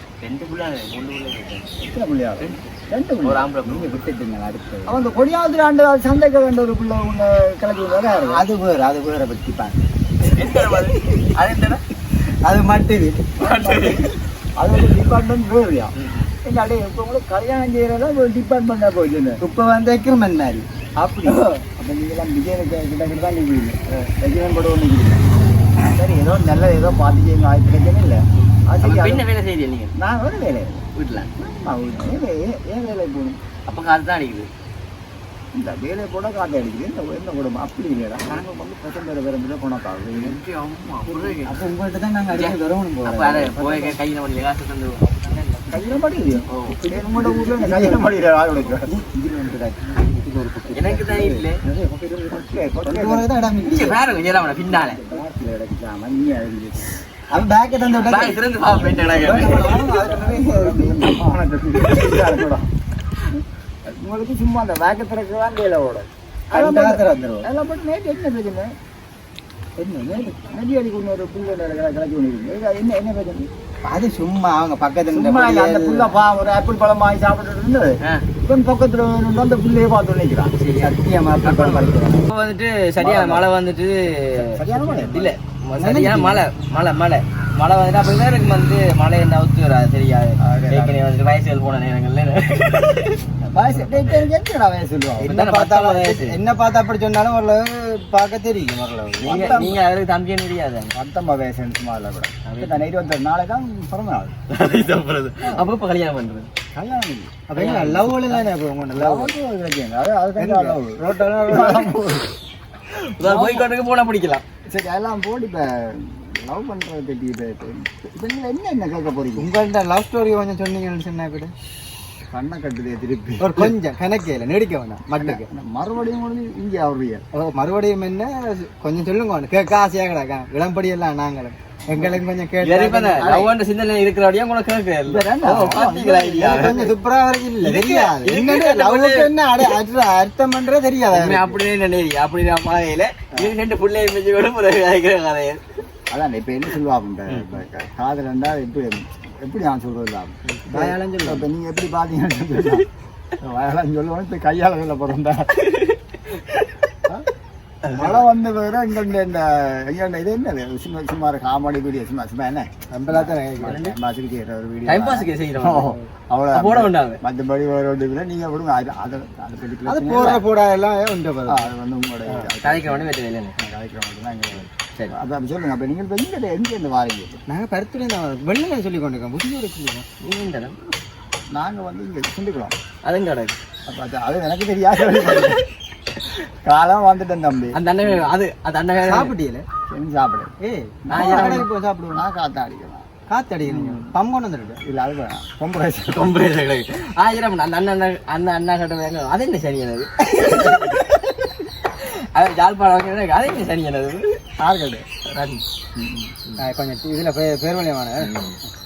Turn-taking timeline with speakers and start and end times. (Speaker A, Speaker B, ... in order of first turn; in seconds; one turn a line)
Speaker A: 0.2-1.7
Speaker B: 1.8-3.5
Speaker A: 2.4-2.7
Speaker A: 3.2-4.0
Speaker C: 3.6-5.0
Speaker B: 4.8-8.4
Speaker C: 8.3-9.8
Speaker A: 10.2-11.8
Speaker C: 12.4-13.3
Speaker B: 13.4-15.9
Speaker A: 13.4-14.1
Speaker A: 15.9-16.3
Speaker B: 16.4-19.4
Speaker C: 19.4-20.6
Speaker B: 21.0-25.3
Speaker C: 21.2-21.6
Speaker B: 25.8-29.2
Speaker A: 28.4-29.9
Speaker B: 29.9-30.8
Speaker A: 30.9-31.3
Speaker B: 31.4-33.4
Speaker A: 33.7-34.5
Speaker B: 35.5-40.4
Speaker A: 40.1-41.6
Speaker C: 41.1-44.0
Speaker A: 42.3-45.5
Speaker C: 45.3-45.8
Speaker B: 45.7-48.9
Speaker A: 46.5-46.8
Speaker C: 46.7-54.0
Speaker A: 50.7-51.6
Speaker B: 52.3-53.3
Speaker A: 53.6-55.0
Speaker B: 54.7-57.0
Speaker C: 57.3-58.4
Speaker A: 58.0-59.7
Speaker B: 58.6-62.7
Speaker C: 59.1-61.3
Speaker B: 63.9-68.7
Speaker C: 66.5-67.5
Speaker C: 69.8-70.4
Speaker B: 70.3-73.5
Speaker C: 73.8-76.1
Speaker B: 75.1-80.5
Speaker A: 80.6-93.2
Speaker C: 80.8-82.2
Speaker B: 83.0-83.5
Speaker B: 84.4-85.3
Speaker C: 85.8-86.4
Speaker B: 90.4-91.0
Speaker B: 93.4-95.3
Speaker C: 93.9-94.2
Speaker C: 95.2-99.6
Speaker A: 95.3-96.4
Speaker A: 99.2-100.9
Speaker B: 99.2-99.8
Speaker B: 100.9-104.5
Speaker A: 102.5-102.8
Speaker A: 104.5-106.5
Speaker B: 105.4-105.7
Speaker B: 106.7-107.5
Speaker C: 107.5-109.3
Speaker A: 107.5-108.1
Speaker B: 108.3-112.3
Speaker C: 110.4-112.0
Speaker A: 112.9-114.4
Speaker B: 113.2-113.7
Speaker B: 114.7-119.5
Speaker C: 119.3-121.5
Speaker B: 122.3-123.7
Speaker C: 123.4-125.5
Speaker B: 125.1-127.2
Speaker C: 127.3-133.5
Speaker A: 132.6-136.8
Speaker B: 133.2-133.5
Speaker B: 135.0-136.9
Speaker C: 135.5-135.8
Speaker C: 136.4-141.6
Speaker A: 137.6-139.3
Speaker A: 141.1-145.6
Speaker B: 146.1-152.9
Speaker C: 150.6-151.4
Speaker B: 153.4-155.5
Speaker A: 155.6-156.0
Speaker A: 157.8-158.2
Speaker B: 157.9-170.4
Speaker C: 162.9-163.8
Speaker A: 163.6-163.9
Speaker A: 164.8-166.0
Speaker A: 166.5-167.2
Speaker C: 169.8-171.7
Speaker B: 171.4-177.4
Speaker A: 172.6-173.5
Speaker C: 177.5-180.1
Speaker A: 180.2-180.8
Speaker B: 181.5-182.7
Speaker A: 183.1-183.6
Speaker B: 183.9-185.6
Speaker B: 186.7-187.8
Speaker A: 187.7-189.3
Speaker C: 189.1-189.6
Speaker B: 189.9-190.5
Speaker C: 190.6-192.2
Speaker A: 191.1-191.7
Speaker B: 191.1-193.1
Speaker C: 193.3-194.8
Speaker A: 193.7-194.0
Speaker B: 194.8-196.3
Speaker A: 196.1-204.4
Speaker B: 200.4-200.9
Speaker B: 204.6-205.0
Speaker A: 205.3-205.6
Speaker B: 205.9-206.3
Speaker C: 206.6-208.3
Speaker A: 208.2-208.6